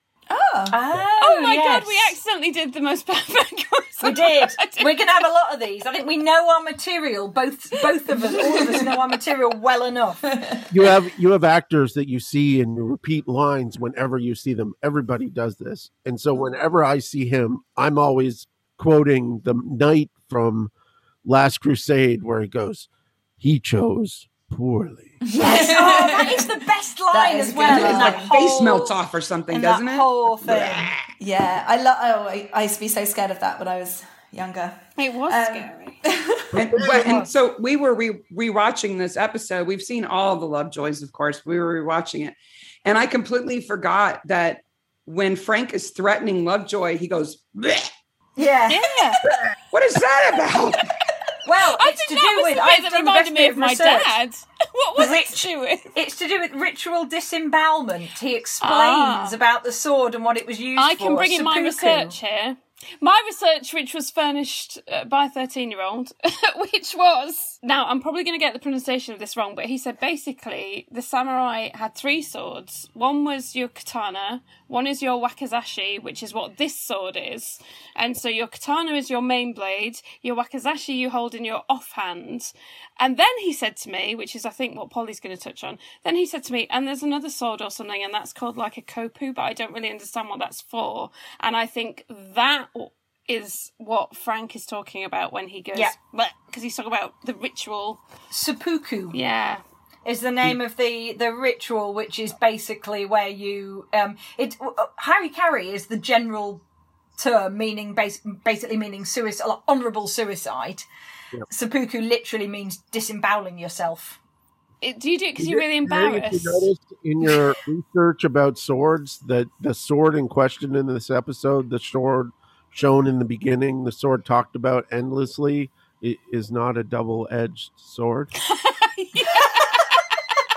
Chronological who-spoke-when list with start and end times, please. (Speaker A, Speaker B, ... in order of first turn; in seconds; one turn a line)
Speaker A: 0.3-0.8
Speaker B: 0.7-2.2
Speaker C: 1.2-5.1
Speaker B: 4.0-10.2
Speaker A: 8.3-8.8
Speaker A: 10.3-10.7
Speaker D: 10.7-20.7
Speaker D: 21.2-22.9
Speaker D: 23.4-25.3
Speaker A: 25.3-28.4
Speaker B: 25.3-29.0
Speaker E: 27.7-31.1
Speaker B: 29.5-30.9
Speaker A: 31.2-37.0
Speaker C: 35.0-36.0
Speaker E: 36.5-47.9
Speaker D: 36.7-37.2
Speaker B: 37.0-37.3
Speaker B: 48.4-48.8
Speaker C: 48.7-49.2
Speaker E: 49.7-50.9
Speaker B: 51.4-54.2
Speaker C: 51.5-55.9
Speaker B: 55.0-62.2
Speaker C: 58.6-59.4
Speaker C: 60.8-98.0
Speaker B: 98.3-99.2
Speaker C: 99.1-99.6
Speaker B: 100.0-106.6
Speaker B: 107.2-110.9
Speaker B: 111.5-114.2
Speaker C: 114.8-116.7
Speaker D: 115.4-128.3
Speaker C: 128.4-130.1